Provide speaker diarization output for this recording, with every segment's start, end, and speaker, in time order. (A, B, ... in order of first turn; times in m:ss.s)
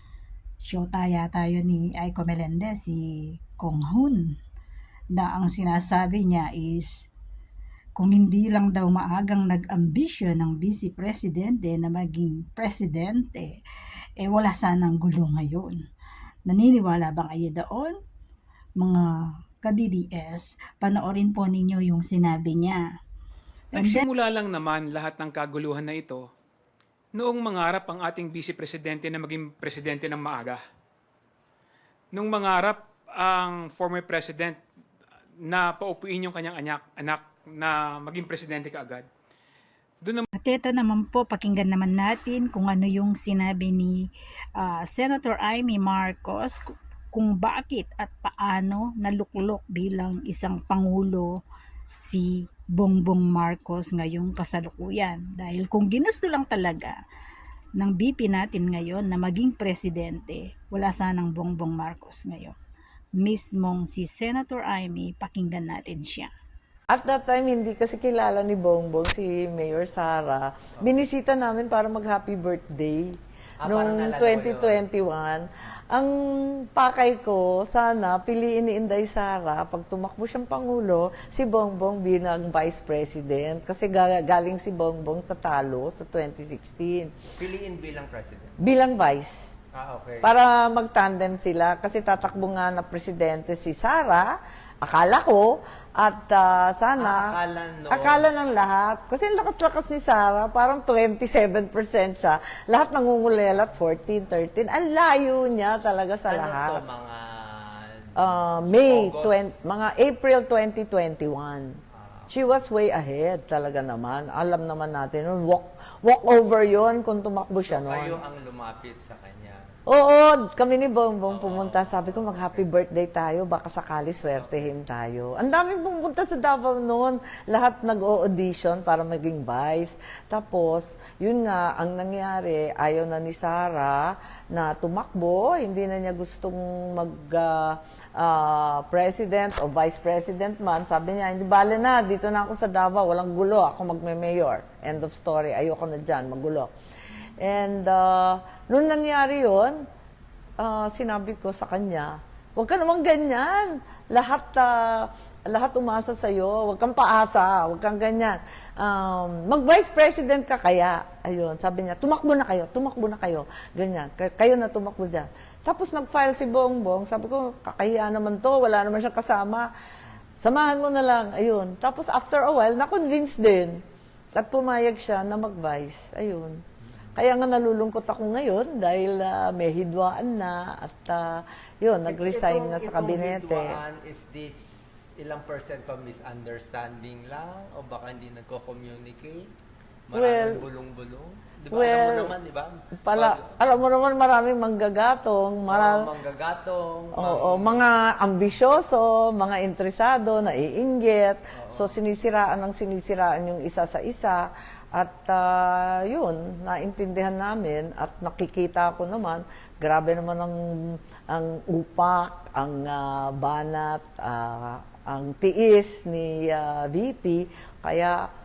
0:00.6-0:03.0 A
0:03.6-0:04.2 A
0:05.1-0:07.1 A
0:08.0-0:13.5 A
0:14.2-0:15.8 A
0:16.5-0:18.0 A
0:18.8-0:22.9 A
0:23.7-0:26.2 B
0:23.8-0:24.0 A
0:27.2-0:30.6 B
0:32.1-0:34.6 B
0:35.5-0:39.1 B
0:40.4-0:44.0 A
0:44.6-0:51.3 A
0:52.0-0:57.0 A
0:57.8-1:02.6 A
1:03.2-1:06.3 A
1:06.9-1:13.1 C
1:13.6-1:14.9 D
1:13.6-1:27.2 C
1:27.4-1:28.6 D
1:28.6-1:29.5 C
1:29.7-1:30.3 D
1:30.2-1:34.3 C
1:34.8-1:37.3 C
1:37.0-1:38.3 D
1:37.9-1:46.8 C
1:46.3-1:49.4 D
1:48.2-1:51.7 C
1:51.9-1:52.3 D
1:52.3-1:58.2 C
1:57.6-1:59.6 D
1:59.9-2:14.0 C
2:01.3-2:02.6 D
2:04.4-2:04.7 D
2:14.5-2:26.7 C
2:27.4-2:29.8 C
2:30.6-2:49.7 C
2:50.4-2:53.8 C
2:54.4-2:56.6 C
2:56.9-2:57.2 D
2:57.2-3:03.7 C
3:02.1-3:09.5 D
3:10.1-3:13.6 D
3:10.1-3:10.7 C
3:11.7-3:12.3 C
3:13.0-3:16.1 C
3:15.7-3:17.9 D
3:17.2-3:38.2 C
3:21.6-3:22.0 D